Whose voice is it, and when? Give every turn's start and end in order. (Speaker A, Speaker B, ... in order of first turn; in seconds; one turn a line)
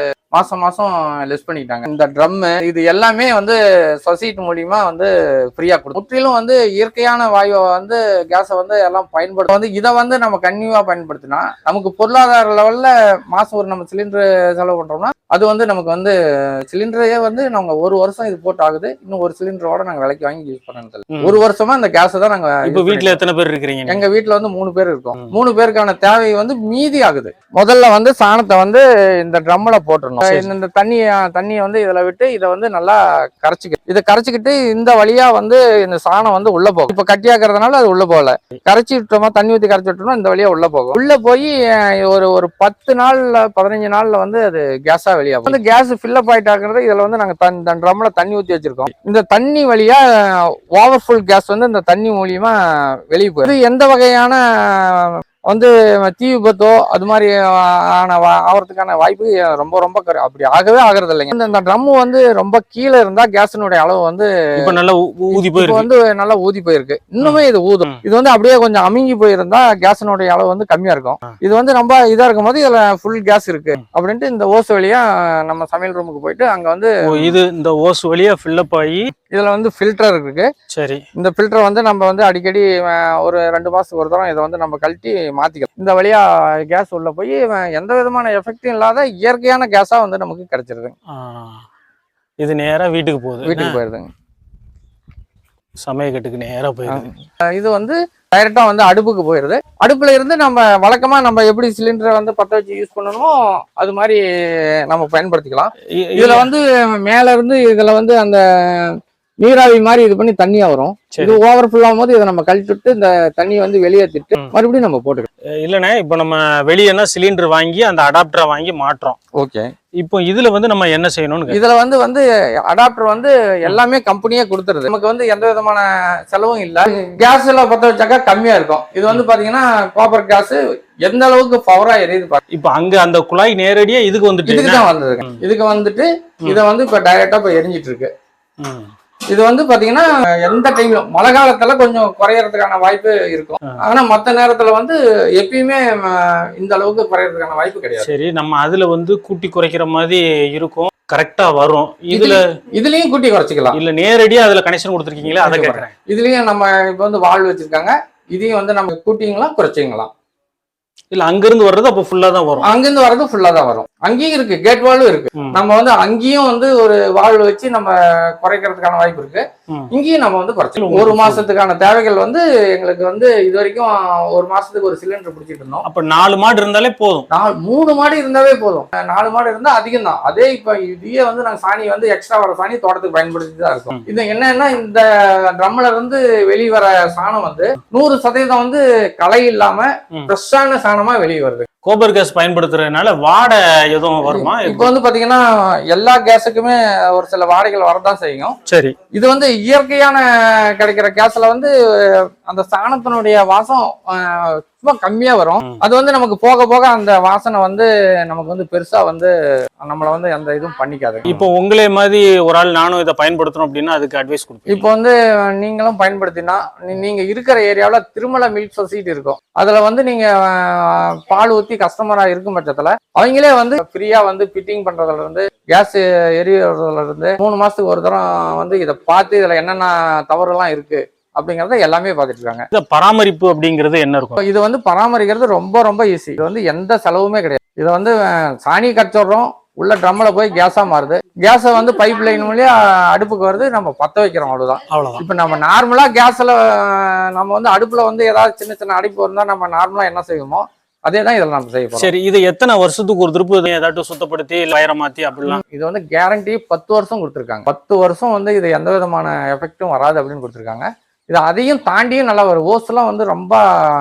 Speaker A: 0.3-16.1
Speaker A: 16.7-23.2
Speaker B: 21.1-21.4
Speaker B: 22.6-24.0
Speaker A: 23.9-64.7
Speaker B: 30.2-30.5
Speaker B: 64.6-65.8
Speaker A: 65.3-77.3
Speaker B: 67.2-68.0
Speaker B: 77.0-79.0
Speaker A: 79.3-80.5
Speaker B: 80.7-81.0
Speaker A: 81.2-90.9
Speaker B: 91.1-91.6
Speaker B: 92.4-93.8
Speaker A: 93.5-94.1
Speaker B: 95.8-97.1
Speaker A: 96.9-115.3
Speaker B: 105.9-106.5
Speaker B: 111.1-111.4
Speaker B: 115.6-119.2
Speaker A: 119.4-119.7
Speaker B: 120.0-121.6
Speaker A: 121.5-132.4
Speaker B: 132.5-135.4
Speaker A: 134.4-138.1
Speaker B: 138.6-138.9
Speaker A: 139.3-148.1
Speaker B: 148.0-152.4
Speaker A: 152.1-153.8
Speaker B: 153.7-155.9
Speaker A: 155.4-160.1
Speaker B: 161.1-162.7
Speaker A: 162.6-175.8
Speaker B: 170.8-171.5
Speaker B: 175.8-177.3
Speaker A: 177.3-191.7
Speaker B: 191.8-194.9
Speaker A: 194.2-198.5
Speaker B: 198.7-198.9
Speaker A: 199.1-209.3
Speaker A: 209.8-211.4
Speaker B: 211.3-214.8
Speaker A: 214.7-232.6
Speaker B: 232.7-234.4
Speaker A: 234.4-252.1
Speaker B: 244.9-245.2
Speaker B: 251.9-255.6
Speaker A: 255.5-263.6